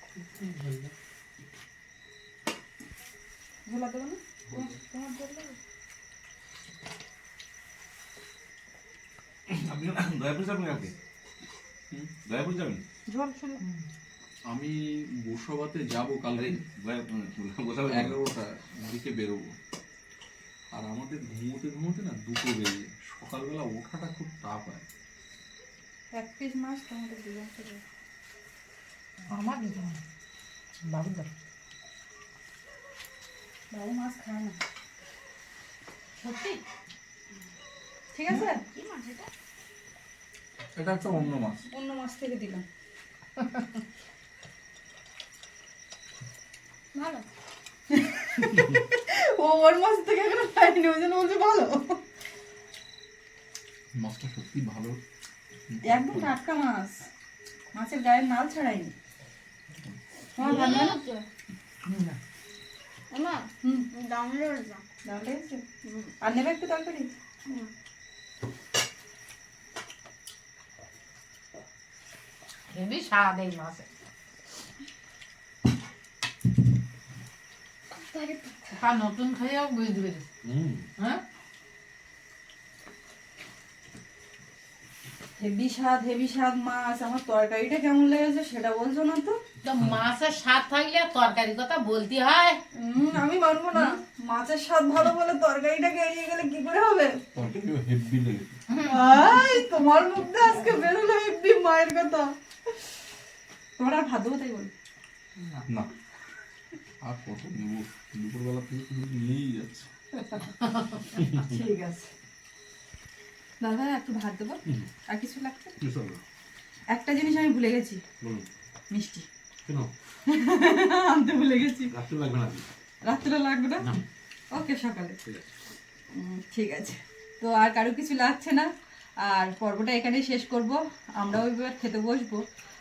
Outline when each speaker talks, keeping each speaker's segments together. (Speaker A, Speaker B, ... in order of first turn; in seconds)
Speaker A: 0.2-0.9, 29.3-30.0, 30.9-31.3, 36.2-36.6, 60.4-61.0, 61.9-62.2, 72.7-73.9, 78.8-80.2, 89.6-92.6, 98.7-99.0
Speaker B: 3.7-5.5, 13.1-13.6, 26.1-27.8, 33.7-34.6, 38.1-38.6, 41.7-42.6, 47.9-52.0, 55.8-57.0, 57.7-58.9, 60.4-61.0, 65.0-65.7, 66.2-67.1, 85.4-89.4, 92.8-97.2, 98.9-102.3, 103.8-104.7, 111.2-112.1, 113.6-114.6, 115.1-115.8, 116.9-118.0, 118.9-119.3, 120.3-121.9, 123.0-123.9, 124.5-125.2, 126.1-128.7, 129.2-132.4
Speaker C: 9.5-10.9, 12.2-12.8, 16.4-18.2, 80.4-80.9, 115.8-116.2, 118.2-118.5, 119.7-119.9, 121.9-122.7, 125.2-125.5
Speaker D: 14.5-16.6, 17.9-19.6, 20.7-24.8, 40.8-41.6, 53.9-55.0, 55.7-56.3, 97.3-98.6, 107.0-109.9
Speaker E: 38.4-39.3, 46.9-47.3, 60.6-61.2, 63.1-64.9, 65.8-66.1, 67.5-67.7, 78.0-78.6